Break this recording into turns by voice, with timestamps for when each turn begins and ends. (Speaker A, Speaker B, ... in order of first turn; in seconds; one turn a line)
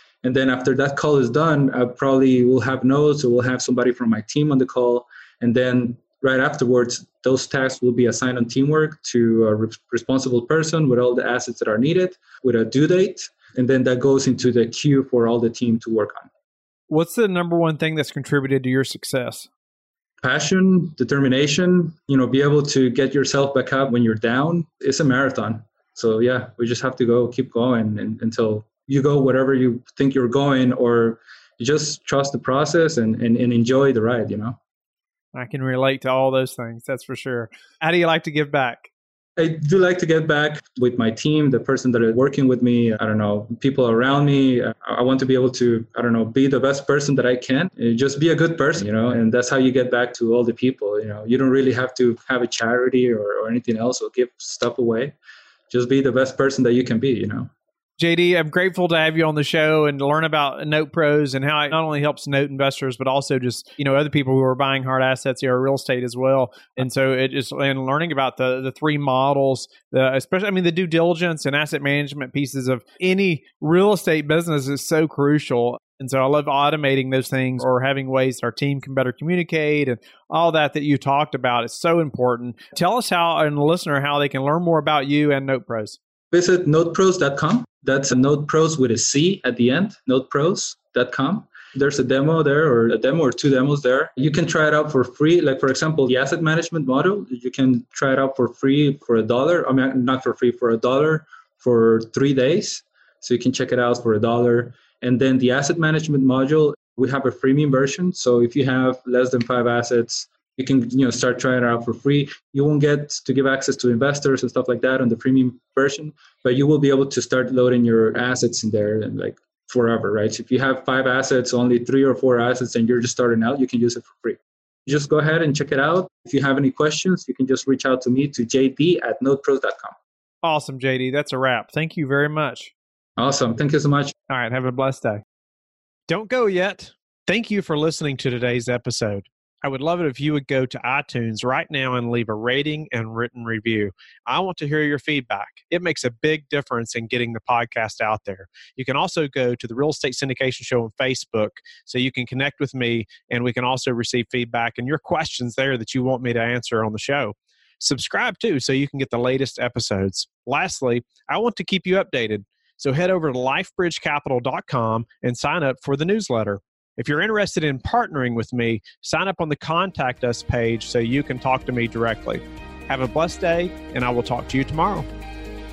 Speaker A: 0.2-16.3
Speaker B: 16.9-19.5
Speaker A: 20.2-34.6
Speaker B: 35.3-38.9
Speaker A: 39.4-55.1
Speaker A: 55.7-57.5
Speaker B: 58.0-86.0
Speaker A: 86.3-129.9
Speaker B: 130.4-132.7
Speaker A: 133.2-134.1
Speaker B: 134.3-135.2
Speaker B: 136.1-175.1